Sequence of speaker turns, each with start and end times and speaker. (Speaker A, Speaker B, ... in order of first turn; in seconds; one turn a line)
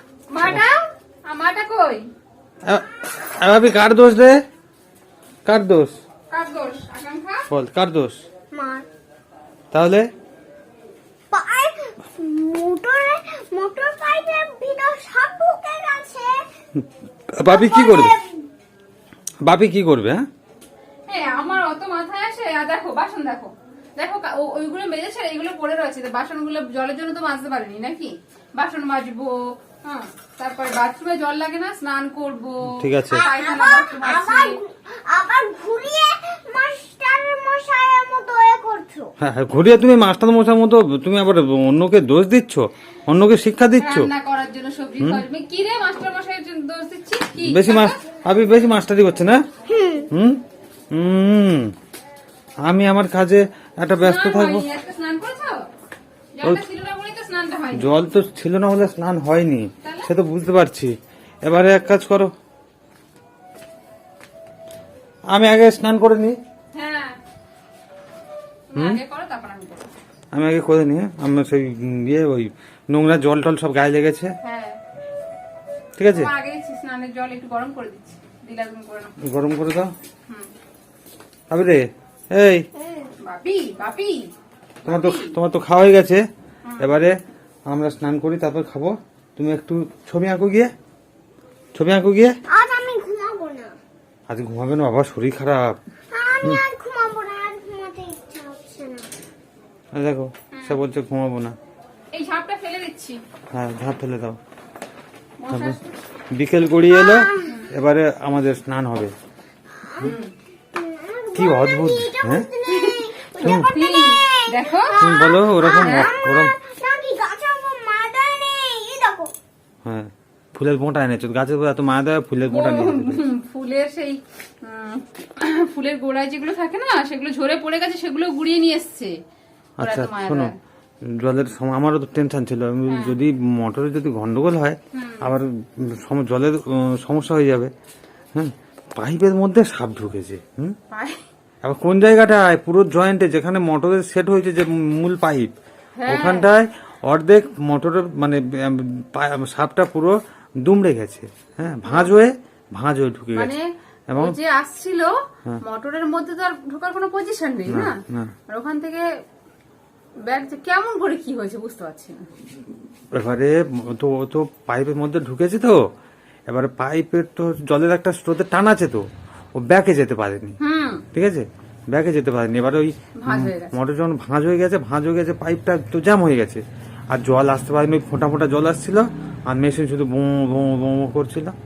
Speaker A: 0.3-2.1
Speaker B: 2.6-4.4
Speaker B: 5.4-6.0
Speaker A: 6.3-7.5
Speaker B: 7.5-8.2
Speaker C: 8.5-8.8
Speaker B: 9.7-10.1
Speaker C: 11.3-16.4
Speaker B: 16.8-18.2
Speaker C: 17.4-18.4
Speaker B: 19.4-20.2
Speaker A: 21.1-34.6
Speaker B: 32.8-33.3
Speaker C: 33.1-39.1
Speaker B: 39.2-44.1
Speaker A: 43.8-48.0
Speaker B: 47.4-49.4
Speaker C: 49.7-50.1
Speaker B: 50.1-50.4
Speaker B: 50.9-51.7
Speaker B: 52.6-54.7
Speaker A: 54.0-55.6
Speaker A: 56.4-57.9
Speaker B: 57.7-62.3
Speaker A: 59.8-60.1
Speaker B: 65.3-66.4
Speaker A: 66.7-67.2
Speaker A: 68.7-69.9
Speaker B: 68.7-69.0
Speaker B: 70.3-74.3
Speaker A: 74.4-74.8
Speaker B: 76.0-76.3
Speaker A: 76.1-79.1
Speaker B: 79.2-79.9
Speaker B: 81.5-82.7
Speaker C: 82.8-83.1
Speaker A: 83.2-84.3
Speaker A: 84.8-85.3
Speaker B: 84.8-86.2
Speaker A: 86.6-87.0
Speaker B: 86.8-87.2
Speaker B: 87.7-90.7
Speaker B: 91.7-92.4
Speaker C: 92.5-93.7
Speaker B: 94.3-95.8
Speaker C: 96.1-99.1
Speaker B: 99.9-101.5
Speaker A: 100.5-100.8
Speaker A: 102.1-103.2
Speaker B: 103.5-104.4
Speaker A: 105.4-106.0
Speaker B: 105.5-105.8
Speaker B: 106.3-109.1
Speaker C: 106.9-107.6
Speaker A: 107.4-107.8
Speaker C: 109.8-110.1
Speaker A: 110.0-110.3
Speaker C: 110.7-119.3
Speaker B: 111.3-112.5
Speaker A: 112.7-115.1
Speaker B: 113.4-113.7
Speaker B: 115.0-116.5
Speaker A: 115.8-116.2
Speaker B: 119.8-123.2
Speaker A: 122.5-129.1
Speaker B: 129.8-130.5
Speaker A: 129.8-130.5
Speaker B: 131.1-137.7
Speaker A: 132.9-133.2
Speaker A: 134.9-135.3
Speaker B: 138.3-140.8
Speaker A: 140.9-141.2
Speaker B: 141.6-145.5
Speaker A: 145.9-146.5
Speaker B: 146.1-153.5
Speaker A: 151.8-152.1
Speaker A: 153.3-159.1
Speaker B: 154.1-154.3
Speaker B: 157.7-158.3
Speaker A: 160.2-162.3
Speaker B: 163.1-165.8
Speaker B: 166.5-169.0
Speaker B: 169.6-170.6
Speaker A: 170.6-171.1
Speaker B: 171.1-181.6
Speaker A: 173.2-173.7